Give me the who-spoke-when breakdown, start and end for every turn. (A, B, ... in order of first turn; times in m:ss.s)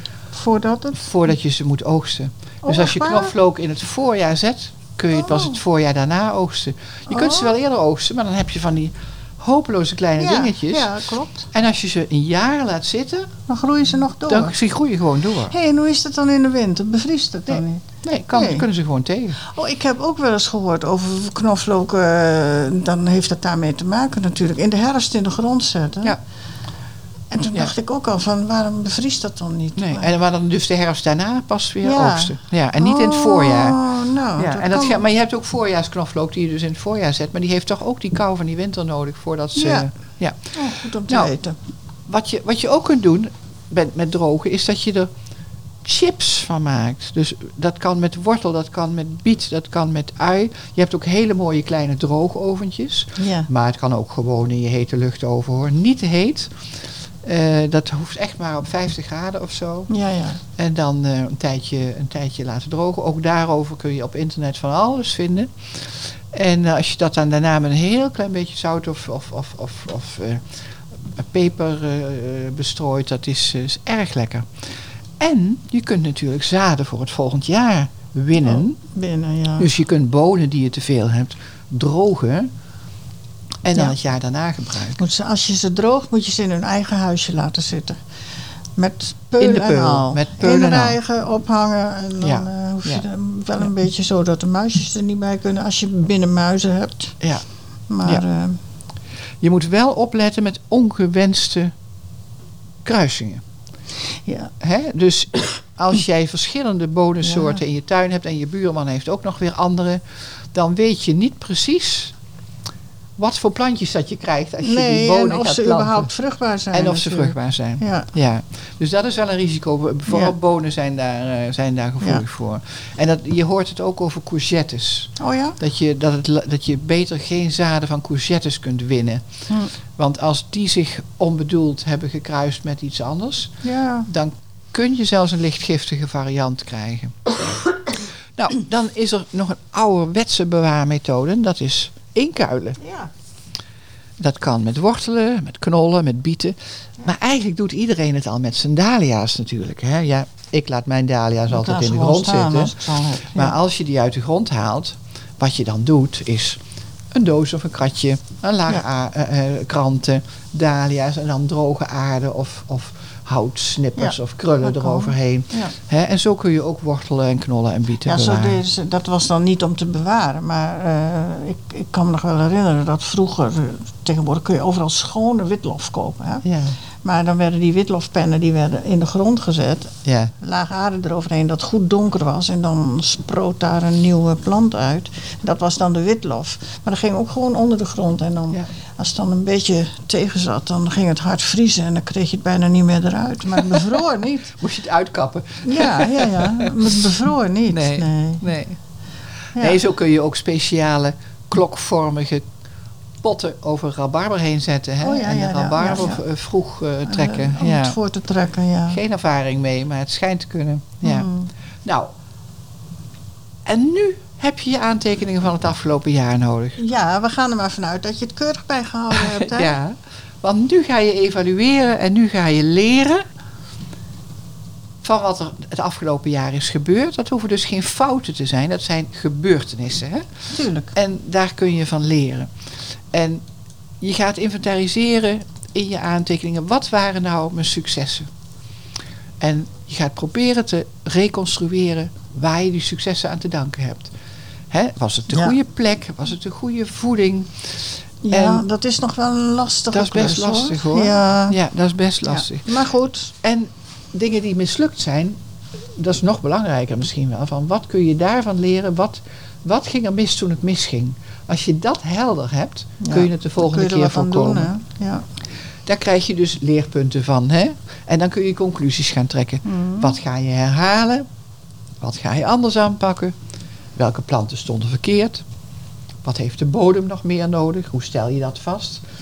0:00.3-0:01.1 A
0:01.0-0:10.9 B
0:02.6-0:03.3 A
0:05.1-0:05.6 A
0:07.1-0:07.5 A
0:10.2-0:11.5 A
0:11.5-0:13.3 B
0:13.5-0:14.6 A
0:14.3-0:15.5 B
0:15.5-0:18.6 A
0:17.5-0:19.4 B
0:19.4-0:26.2 A
0:27.3-0:30.1 A
0:29.8-0:33.8 B
0:31.8-0:35.0 A
0:34.4-0:40.4 B
0:39.5-0:39.9 A
0:40.5-0:41.6 A
0:42.1-0:45.1 B
0:45.8-0:56.5 B
0:53.2-0:53.5 A
0:57.2-0:59.9 B
0:59.9-1:00.4 A
1:00.6-1:10.4 B
1:11.0-1:14.5 B
1:15.2-1:18.8 B
1:18.4-1:19.7 A
1:19.6-1:22.5 B
1:23.6-1:25.0 B
1:25.0-1:28.0 A
1:28.8-1:37.2 A
1:29.4-1:31.0 B
1:32.2-1:33.1 B
1:37.9-1:38.6 A
1:39.4-1:41.7 B
1:42.8-1:43.4 B
1:44.2-1:44.5 A
1:44.6-1:50.0 B
1:47.2-1:47.6 A
1:50.5-1:52.1 B
1:53.2-1:56.1 B
1:54.6-1:58.1 A
1:56.7-2:09.2 B
2:00.1-2:00.3 A
2:05.2-2:05.6 A
2:10.0-2:17.3 B
2:13.6-2:14.1 A
2:18.3-2:22.8 B
2:22.8-2:23.1 A
2:24.2-2:32.8 B
2:31.5-2:33.6 A
2:33.3-2:36.6 B
2:37.1-2:48.6 B
2:44.0-2:45.7 A
2:48.0-2:56.4 A
2:56.4-2:56.8 B
2:57.0-3:14.6 A
3:00.0-3:00.3 B
3:14.6-3:16.7 B
3:15.6-3:18.4 A
3:17.7-3:18.8 B
3:19.6-3:22.4 B
3:23.2-3:28.0 B
3:25.0-3:26.2 A
3:27.0-3:29.0 A
3:28.9-3:31.3 B
3:31.0-3:31.5 A
3:33.6-3:36.8 B
3:36.8-3:39.7 A
3:39.1-3:43.2 B
3:45.0-3:50.2 B
3:50.5-3:50.9 A
3:50.9-3:52.5 B
3:53.1-3:53.4 B
3:54.0-3:58.3 B
3:59.4-4:04.1 B
4:04.7-4:07.5 B
4:05.3-4:05.6 A
4:08.2-4:11.6 A
4:08.3-4:08.6 B
4:09.9-4:12.6 B
4:12.2-4:13.3 A
4:13.4-4:15.4 B
4:16.0-4:24.7 B
4:23.0-4:25.2 A
4:25.8-4:31.2 B
4:29.6-4:30.2 A
4:32.0-4:33.3 B
4:33.9-4:35.4 B
4:36.2-4:39.0 B